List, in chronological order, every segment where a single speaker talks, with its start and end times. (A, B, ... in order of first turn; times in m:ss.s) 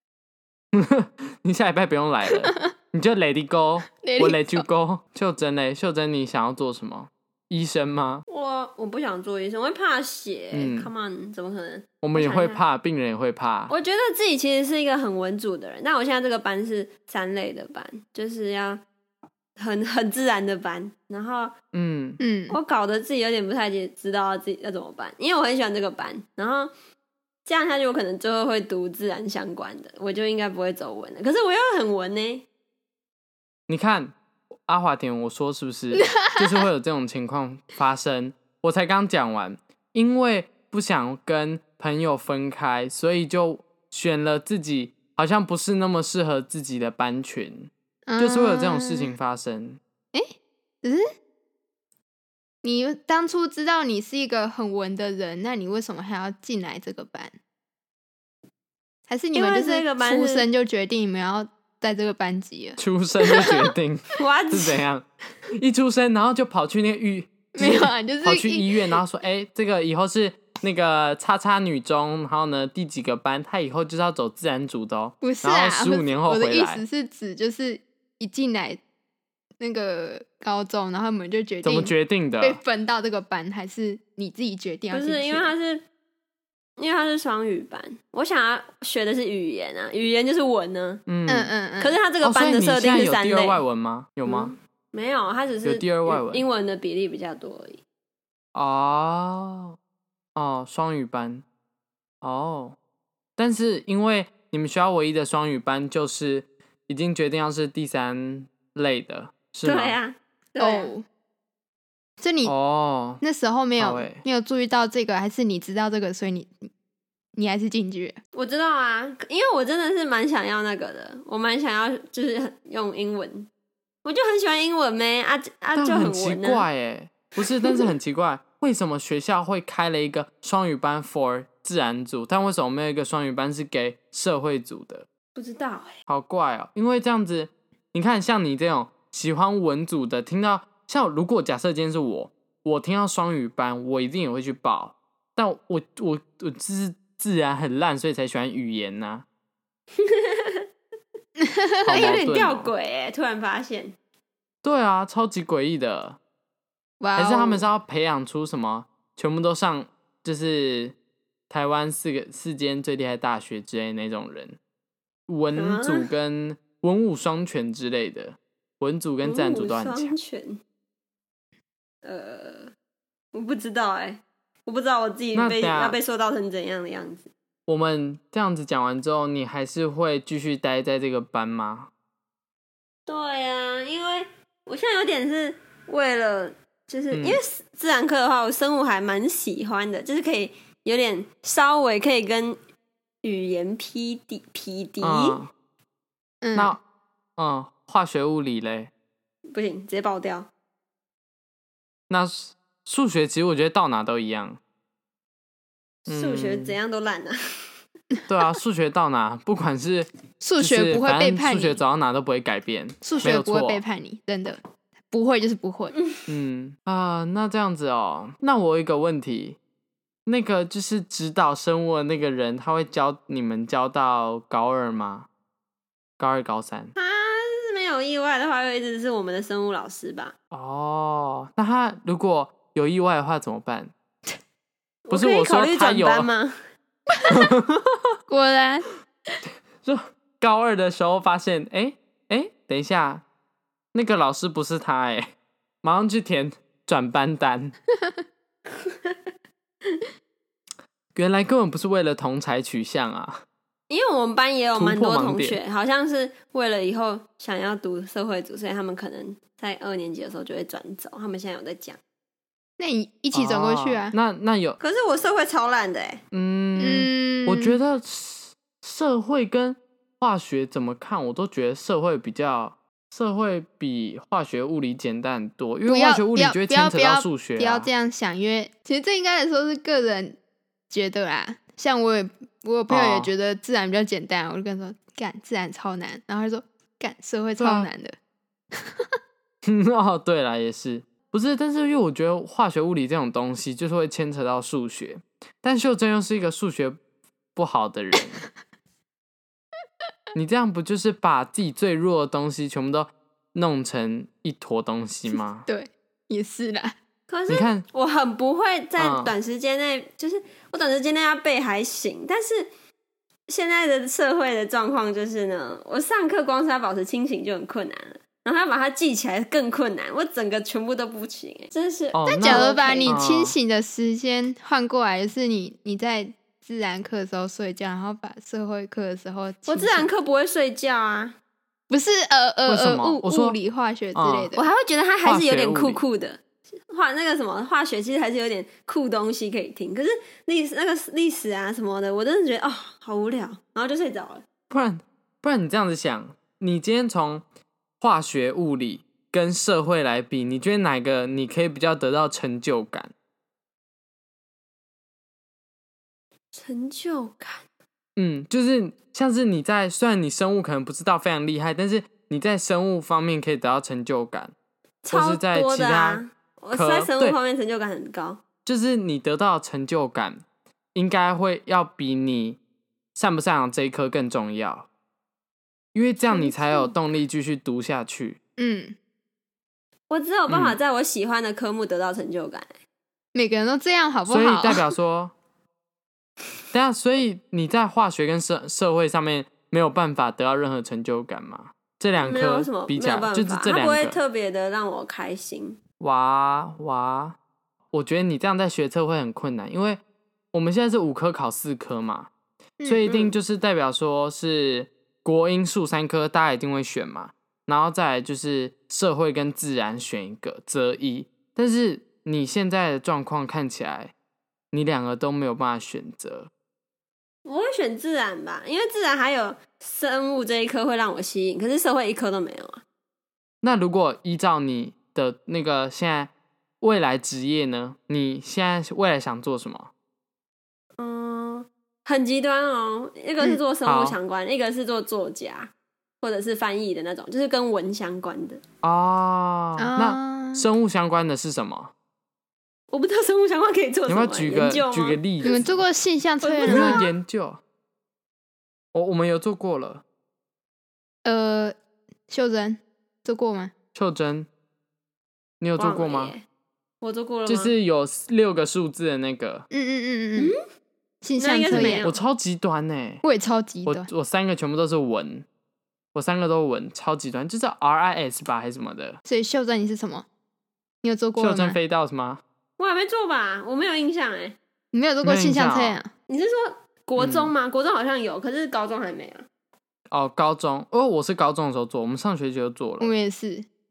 0:00.7-0:08.2 A
0:02.3-0:02.7 B
0:04.0-0:04.6 B
0:08.3-0:12.6 C
0:10.5-0:10.9 A
0:12.0-0:13.7 A
0:13.7-0:18.8 C
0:19.6-0:21.5 C
0:21.7-0:22.2 A
0:22.2-0:22.6 B
0:22.5-0:26.7 C
0:27.4-0:32.4 C
0:33.7-0:49.8 A
0:36.0-0:36.5 B
0:48.1-0:49.1 B
0:50.1-0:51.0 B
0:52.6-0:57.3 B
0:59.1-1:03.6 B
0:59.3-1:00.5 C
1:02.8-1:16.8 A
1:04.2-1:04.8 C
1:07.5-1:08.7 B
1:15.2-1:18.8 B
1:19.6-1:25.5 B
1:21.6-1:22.6 A
1:24.9-1:25.8 C
1:26.8-1:31.0 C
1:31.1-1:31.5 A
1:31.3-1:32.0 B
1:31.8-1:33.6 C
1:32.2-1:34.5 A
1:34.2-1:37.8 C
1:35.6-1:36.4 A
1:38.5-1:39.8 A
1:40.4-1:41.4 A
1:42.2-1:42.8 A
1:43.4-1:50.0 A
1:49.6-1:50.9 C
1:50.6-1:51.0 B
1:52.2-1:52.5 B
1:52.4-1:53.2 A
1:53.2-1:56.7 B
1:53.8-1:54.2 A
1:57.3-1:58.2 B
1:58.3-2:03.5 C
2:04.0-2:06.6 C
2:05.7-2:15.0 A
2:07.6-2:07.9 C
2:15.3-2:16.0 C
2:16.1-2:29.2 A
2:30.0-2:30.6 C
2:31.4-2:32.1 B
2:31.8-2:32.7 A
2:31.9-2:34.0 C
2:34.6-2:36.2 A
2:37.0-2:37.7 B
2:37.2-2:40.9 A
2:41.5-2:44.6 A
2:45.3-2:50.1 A
2:45.5-2:46.0 C
2:49.2-2:50.6 C
2:52.0-2:52.7 C
2:53.3-2:57.3 C
2:55.3-2:56.0 A
2:57.7-3:01.9 A
3:03.1-3:12.6 C
3:07.1-3:07.4 A
3:13.2-3:15.4 C
3:15.0-3:15.5 A
3:16.4-3:16.8 B
3:16.5-3:16.8 A
3:17.4-3:18.9 A
3:19.5-3:20.5 C
3:22.1-3:24.6 A
3:26.0-3:27.7 C
3:26.1-3:26.8 A
3:28.3-3:30.1 A
3:30.4-3:31.8 B
3:30.6-3:33.8 A
3:33.0-3:35.9 B
3:36.3-3:39.6 A
3:40.2-3:45.3 A
3:46.2-3:46.9 A
3:47.0-3:50.3 C
3:50.5-3:53.9 A
3:55.0-3:56.6 C
3:55.1-3:56.3 A
3:57.3-3:58.0 A
3:58.3-3:58.9 B
3:59.8-4:03.2 A
4:03.9-4:05.3 A
4:05.8-4:07.7 A
4:08.8-4:09.2 C
4:11.1-4:13.4 A
4:13.9-4:22.0 C
4:14.7-4:15.6 A
4:22.8-4:24.1 B
4:23.3-4:24.8 A
4:24.8-4:26.2 C
4:26.3-4:37.9 A
4:26.8-4:27.8 B
4:35.8-4:40.4 B
4:40.9-4:48.2 B
4:42.9-4:43.3 A
4:47.6-4:47.9 A
4:48.8-4:49.0 B
4:49.6-4:57.0 A
4:57.5-4:58.4 A
5:00.3-5:05.6 A
5:05.3-5:07.0 B
5:07.3-5:12.7 C
5:07.5-5:07.8 A
5:09.0-5:09.3 A
5:13.5-5:23.2 C
5:22.1-5:23.5 A
5:22.2-5:30.1 B
5:29.7-5:31.4 C
5:31.9-5:34.6 B
5:32.7-5:33.6 A
5:34.1-5:34.5 A
5:34.5-5:44.4 C
5:35.2-5:36.0 A
5:44.7-5:47.4 A
5:48.0-5:53.1 A
5:56.5-5:57.6 C
5:58.2-6:04.5 A
6:05.0-6:08.4 C
6:05.1-6:07.4 A
6:08.6-6:10.4 A
6:10.9-6:12.6 A
6:13.1-6:14.9 A
6:15.9-6:18.4 A
6:16.3-6:16.9 C
6:18.6-6:18.9 B
6:20.1-6:22.7 C
6:20.5-6:20.8 A
6:23.3-6:24.8 B
6:24.3-6:25.3 A
6:26.7-6:34.2 A
6:32.2-6:35.8 C
6:36.0-6:37.4 A
6:37.9-6:40.0 A
6:40.5-6:42.3 A
6:42.8-6:43.1 B
6:42.8-6:54.1 A
6:43.0-6:43.4 C
6:54.7-6:56.5 A
6:57.4-7:02.8 C
7:03.6-7:09.9 A
7:11.0-7:18.6 C
7:13.8-7:14.2 A
7:18.8-7:21.9 A
7:19.8-7:20.7 B
7:22.9-7:25.7 C
7:24.1-7:25.6 A
7:25.4-7:27.0 B
7:26.4-7:27.1 C
7:26.7-7:27.6 A
7:28.9-7:30.0 A
7:31.2-7:31.7 B
7:32.3-7:33.7 B
7:33.9-7:34.5 A
7:35.6-7:36.3 A
7:35.8-7:36.4 C
7:37.0-7:37.7 C
7:37.4-7:39.6 A
7:39.7-7:40.5 B
7:41.2-7:42.1 B
7:41.4-7:42.2 C
7:41.7-7:43.2 A
7:43.2-7:44.1 B
7:43.8-7:45.4 A
7:46.1-7:49.2 A
7:49.2-7:50.2 B
7:51.0-7:51.8 B
7:51.4-7:52.4 A
7:52.8-7:54.6 C
7:54.9-7:56.1 B
7:55.2-7:56.0 A
7:56.3-7:59.4 C
7:57.2-7:57.5 A
8:00.1-8:03.1 A
8:03.0-8:03.6 B